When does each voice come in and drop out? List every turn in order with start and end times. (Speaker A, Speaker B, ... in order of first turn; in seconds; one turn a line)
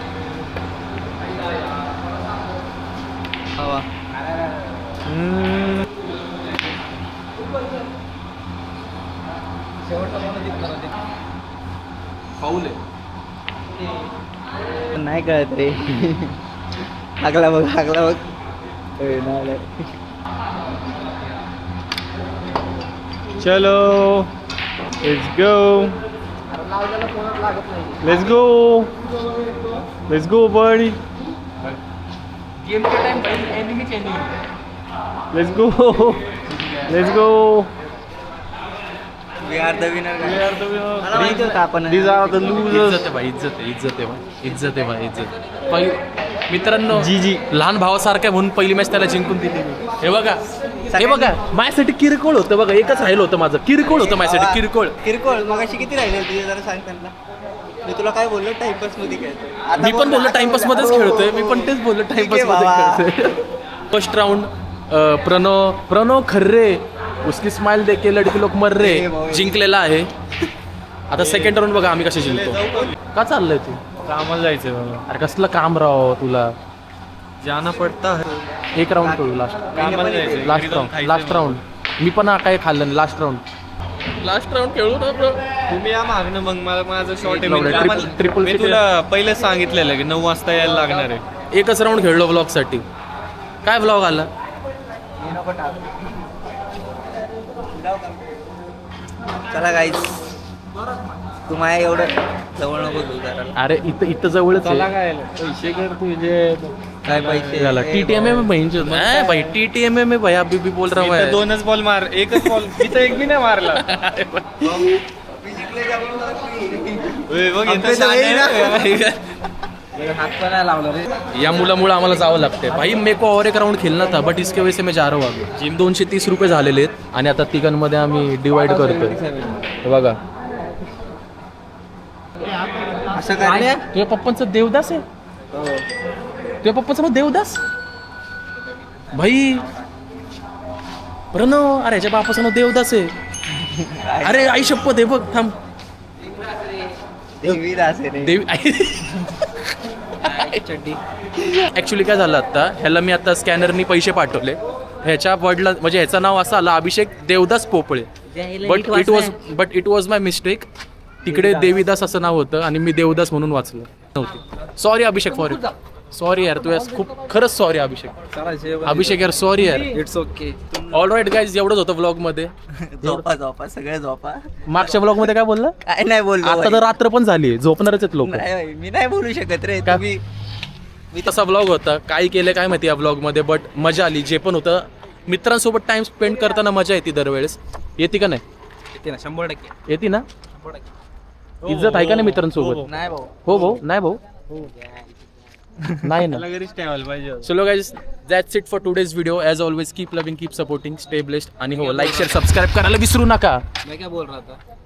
Speaker A: 3.6-3.9
Speaker B: 4.1-5.0
Speaker A: 5.1-5.8
Speaker B: 9.9-10.9
Speaker C: 12.4-12.8
Speaker A: 14.9-16.4
Speaker A: 17.2-18.2
Speaker A: 19.0-19.7
Speaker D: 23.4-24.3
Speaker D: 25.0-26.0
Speaker B: 26.5-28.2
Speaker D: 28.0-28.9
Speaker D: 30.1-31.0
Speaker C: 32.6-34.3
Speaker D: 35.3-36.3
Speaker C: 36.5-36.9
Speaker D: 36.9-37.7
Speaker A: 39.4-40.5
Speaker D: 40.2-41.2
Speaker A: 41.0-42.6
Speaker C: 41.1-41.6
Speaker D: 41.9-43.1
Speaker C: 42.5-46.0
Speaker C: 46.5-50.4
Speaker D: 46.9-47.4
Speaker A: 50.9-51.4
Speaker C: 50.9-55.0
Speaker A: 52.8-53.3
Speaker A: 53.9-57.1
Speaker A: 57.8-63.1
Speaker C: 59.8-70.1
Speaker A: 68.8-69.6
Speaker C: 71.1-73.8
Speaker D: 71.2-73.0
Speaker D: 74.0-75.0
Speaker C: 75.1-76.5
Speaker D: 77.4-78.3
Speaker C: 78.8-79.8
Speaker A: 79.0-80.6
Speaker D: 79.7-81.6
Speaker C: 80.4-83.4
Speaker C: 84.2-85.4
Speaker D: 85.7-91.2
Speaker B: 87.2-88.3
Speaker C: 87.4-88.8
Speaker C: 91.5-92.8
Speaker C: 93.6-94.3
Speaker A: 95.2-96.0
Speaker A: 97.5-98.4
Speaker A: 99.5-100.3
Speaker A: 101.5-103.6
Speaker C: 103.6-104.9
Speaker D: 104.6-107.6
Speaker A: 107.1-108.4
Speaker C: 107.5-111.4
Speaker D: 108.4-109.6
Speaker D: 110.9-113.9
Speaker C: 112.3-112.8
Speaker C: 113.7-114.5
Speaker A: 114.6-119.0
Speaker D: 117.3-119.2
Speaker B: 120.0-121.1
Speaker C: 121.3-129.2
Speaker B: 128.5-129.6
Speaker C: 129.8-130.2
Speaker A: 133.1-133.8
Speaker C: 133.9-135.0
Speaker C: 136.6-137.6
Speaker C: 139.1-139.7
Speaker C: 141.3-143.1
Speaker A: 143.6-144.6
Speaker C: 144.2-145.6
Speaker A: 147.4-148.4
Speaker C: 148.2-149.3
Speaker B: 150.2-151.0
Speaker C: 151.5-158.1
Speaker B: 158.3-159.4
Speaker C: 158.6-160.7
Speaker B: 161.2-161.9
Speaker C: 161.2-168.2
Speaker B: 168.3-170.6
Speaker C: 168.8-170.0
Speaker A: 170.7-171.1
Speaker C: 170.9-172.5
Speaker A: 172.8-174.5
Speaker C: 174.7-175.8
Speaker A: 175.9-176.9
Speaker C: 176.4-178.5
Speaker A: 178.2-180.2
Speaker C: 181.2-188.4
Speaker B: 188.9-189.7
Speaker C: 189.9-190.3
Speaker B: 190.5-190.8
Speaker D: 191.6-192.9
Speaker C: 191.7-192.9
Speaker A: 192.8-193.5
Speaker C: 193.4-194.2
Speaker B: 194.5-195.2
Speaker C: 196.0-196.4
Speaker D: 196.2-197.5
Speaker C: 197.4-203.6
Speaker B: 201.7-202.5
Speaker B: 203.8-204.6